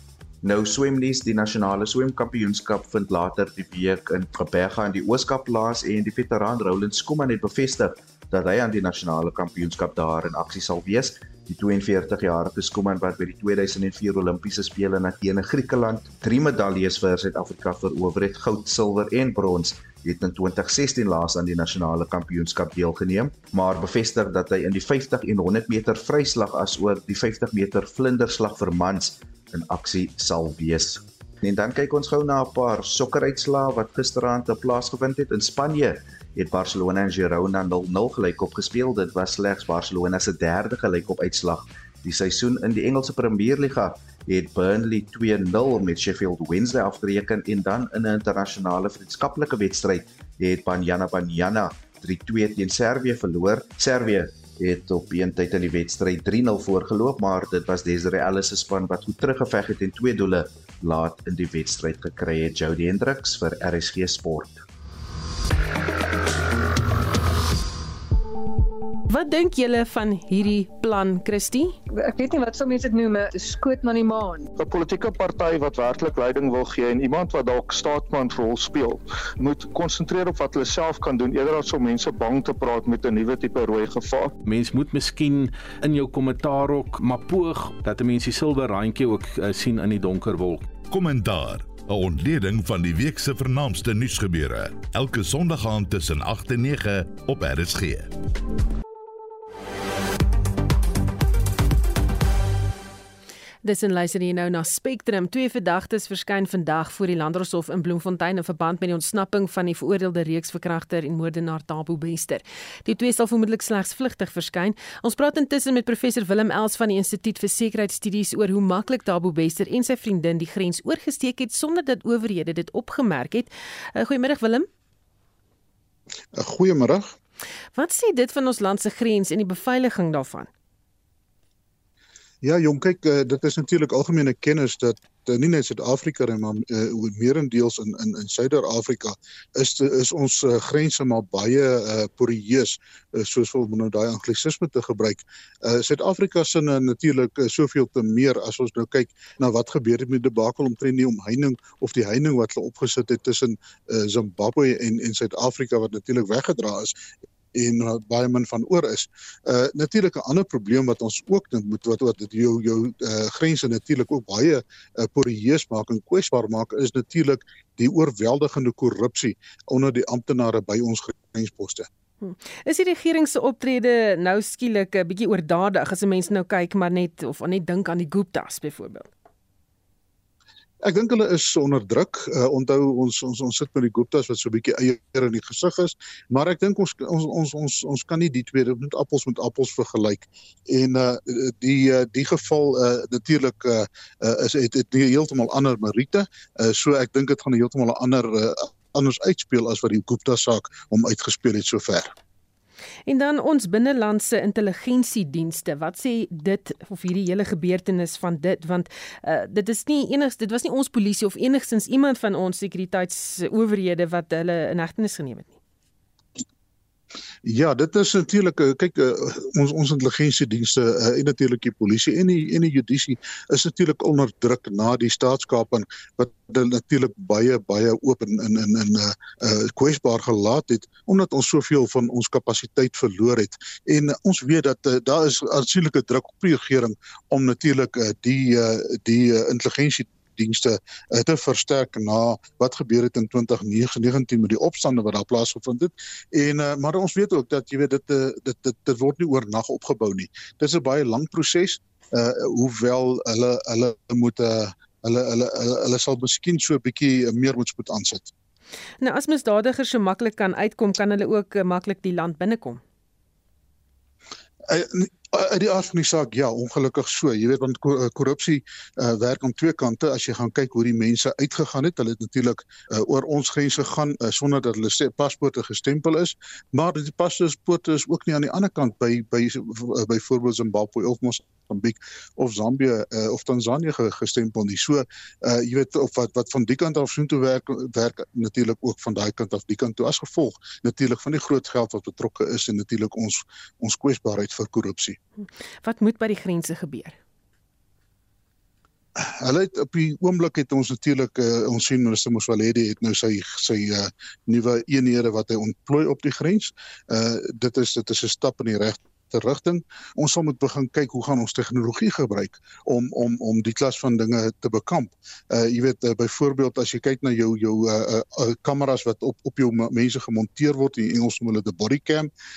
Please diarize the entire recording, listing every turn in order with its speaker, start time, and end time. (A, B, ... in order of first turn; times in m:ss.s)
0:00.4-1:04.6 A
1:09.1-1:11.8 B
1:11.9-1:14.5 C
1:14.6-1:24.4 D
1:24.4-1:30.7 E
1:30.8-1:38.1 F
1:43.6-2:04.7 B
2:06.3-2:07.2 G
2:07.8-2:10.5 B
2:12.4-2:37.0 G
2:37.5-2:51.9 G
2:52.2-2:59.1 B
3:00.8-3:22.2 G
3:23.1-3:35.6 B
3:37.4-4:18.3 G
4:19.0-4:22.8 B
4:24.7-4:55.2 G
4:55.4-4:57.2 B
4:59.2-5:22.3 G